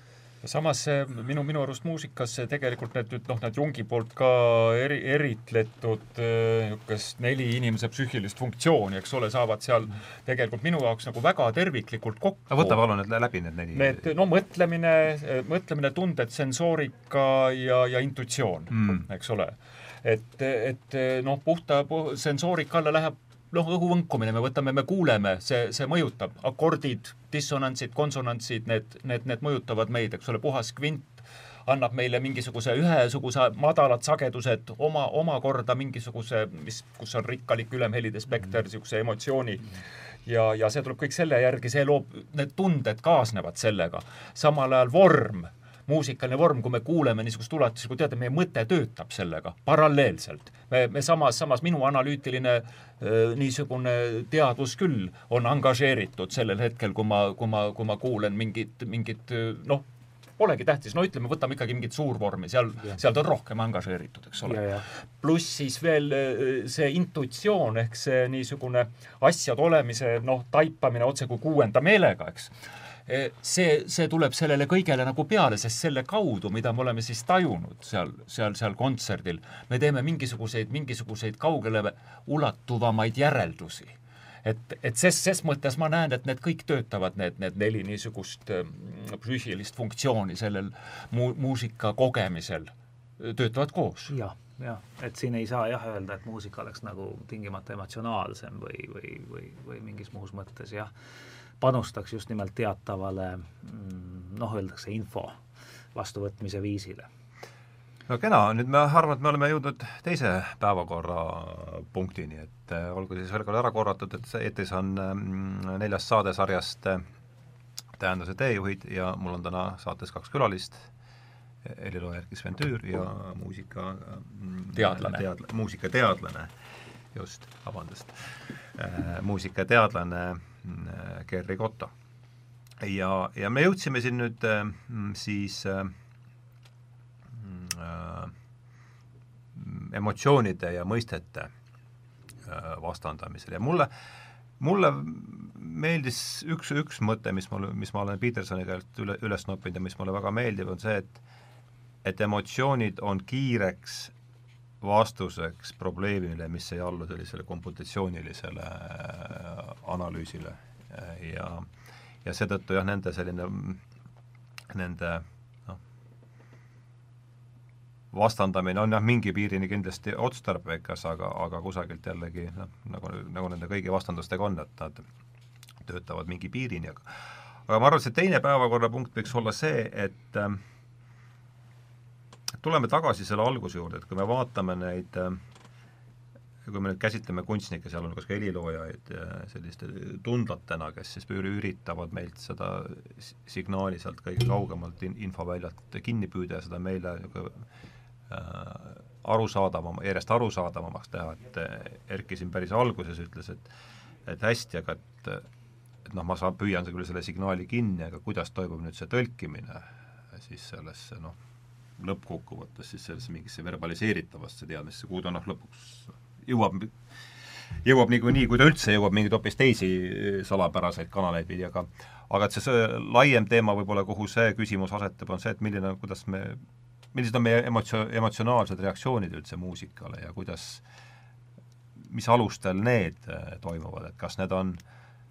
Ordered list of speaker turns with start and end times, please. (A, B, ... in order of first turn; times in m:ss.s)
0:00.4-0:12.8 A
0:12.5-0:14.1 B
0:13.7-0:59.8 A
0:18.8-0:19.0 B
1:00.4-1:12.5 A
1:04.4-1:04.8 C
1:13.0-1:34.1 A
1:34.1-1:40.9 C
1:41.6-1:45.3 C
1:45.9-1:47.1 C
1:48.1-1:57.0 B
1:58.0-2:00.9 B
2:01.6-2:06.5 B
2:04.8-2:05.2 A
2:07.1-2:11.9 B
2:12.8-2:15.9 B
2:17.3-2:18.3 B
2:19.5-2:21.5 B
2:22.4-2:23.9 B
2:24.6-2:31.2 B
2:32.0-2:34.1 B
2:34.8-2:41.7 B
2:42.2-2:43.8 B
2:44.7-2:45.8 B
2:48.1-2:55.1 B
2:55.8-2:57.0 B
2:57.7-3:00.6 B
3:02.5-3:05.4 B
3:06.6-3:17.6 B
3:18.3-3:23.7 B
3:24.2-3:25.4 B
3:26.0-3:31.4 B
3:32.0-3:37.0 B
3:37.8-3:46.6 B
3:47.1-3:50.8 B
3:52.0-3:54.8 B